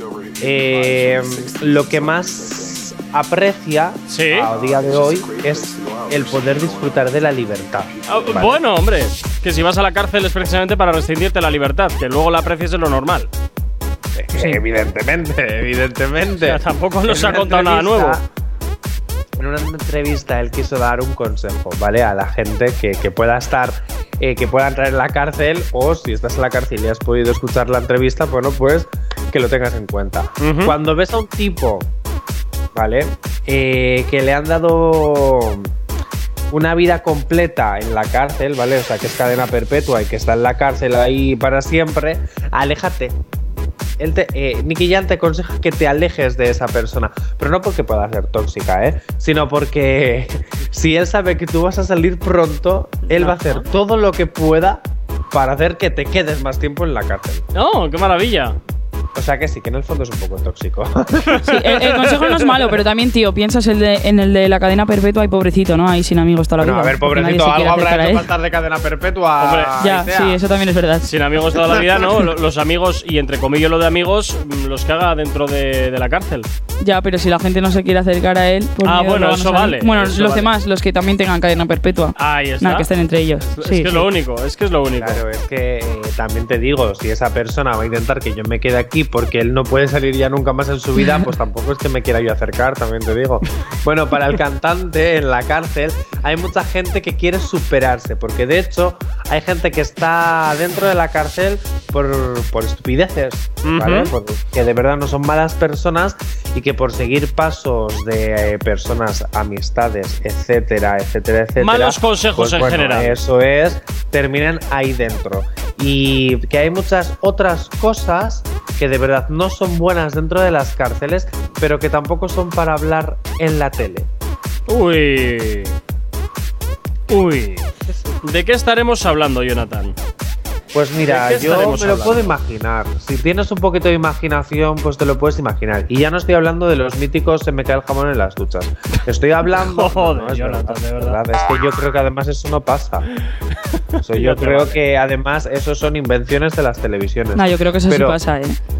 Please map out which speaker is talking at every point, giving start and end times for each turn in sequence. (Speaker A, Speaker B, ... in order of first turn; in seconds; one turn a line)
Speaker A: 0.4-8.6
Speaker B: 4.1-4.5
Speaker B: 8.1-13.3
Speaker A: 14.2-18.2
Speaker B: 16.4-18.2
Speaker A: 19.4-31.9
Speaker B: 30.4-30.8
Speaker A: 32.7-35.7
Speaker A: 36.5-43.2
Speaker A: 44.0-57.5
Speaker B: 53.1-53.6
Speaker B: 57.5-58.6
Speaker A: 59.1-61.5
Speaker B: 61.3-62.7
Speaker C: 61.4-68.3
Speaker A: 66.6-70.4
Speaker B: 69.4-69.8
Speaker C: 69.8-71.1
Speaker B: 71.0-76.5
Speaker C: 76.8-84.1
Speaker B: 78.8-80.5
Speaker B: 82.2-82.9
Speaker B: 83.6-85.2
Speaker A: 85.0-124.1
Speaker B: 103.6-104.1
Speaker B: 111.6-113.2
Speaker B: 124.7-125.8
Speaker B: 127.1-127.7
Speaker B: 128.2-129.9
Speaker A: 130.7-143.1
Speaker B: 131.0-132.3
Speaker B: 139.6-141.2
Speaker A: 144.0-148.2
Speaker B: 144.0-144.8
Speaker C: 147.3-148.6